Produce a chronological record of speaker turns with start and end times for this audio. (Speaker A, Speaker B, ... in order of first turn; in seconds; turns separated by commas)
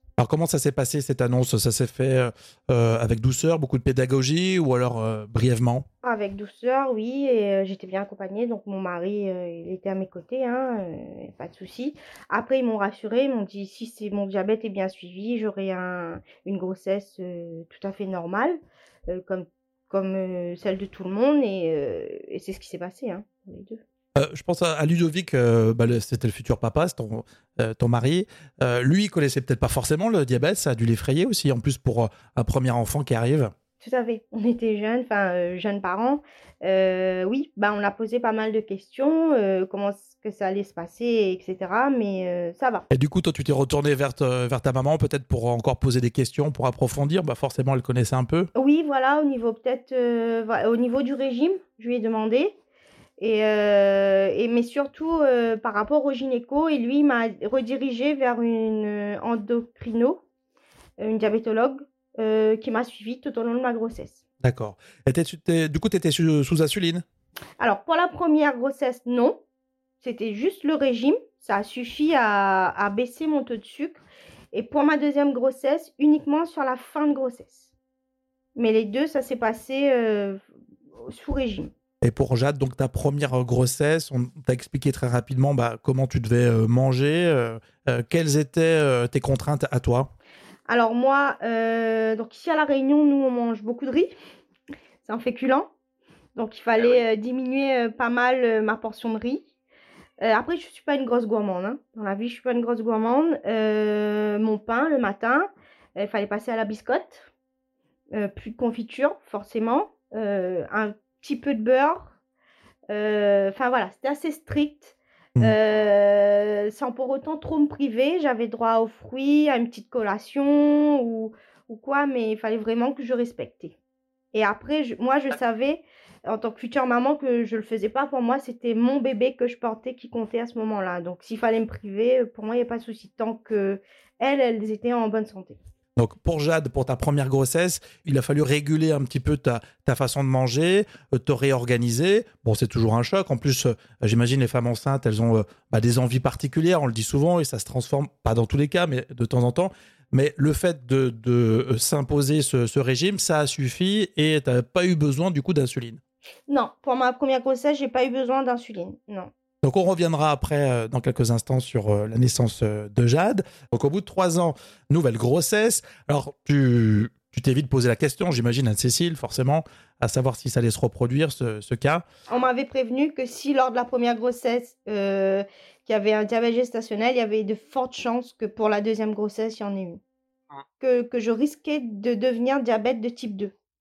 Speaker A: 0.2-5.8, Speaker B: 6.0-23.8, Speaker A: 24.2-33.5, Speaker B: 33.8-42.9, Speaker A: 42.9-48.5, Speaker B: 48.5-52.5, Speaker B: 53.2-60.2, Speaker B: 61.0-64.2, Speaker A: 64.4-67.0, Speaker B: 67.6-69.4, Speaker B: 70.0-74.0, Speaker B: 74.5-77.7, Speaker B: 78.6-80.4, Speaker B: 81.0-81.7, Speaker A: 82.0-90.1, Speaker B: 90.7-94.1, Speaker B: 95.0-95.7, Speaker B: 96.4-99.5, Speaker B: 100.2-107.3, Speaker B: 108.1-112.1, Speaker B: 112.9-123.8, Speaker B: 124.3-135.6, Speaker A: 136.0-156.0, Speaker B: 156.5-159.3, Speaker A: 159.6-172.1, Speaker B: 172.3-180.0, Speaker B: 180.8-183.5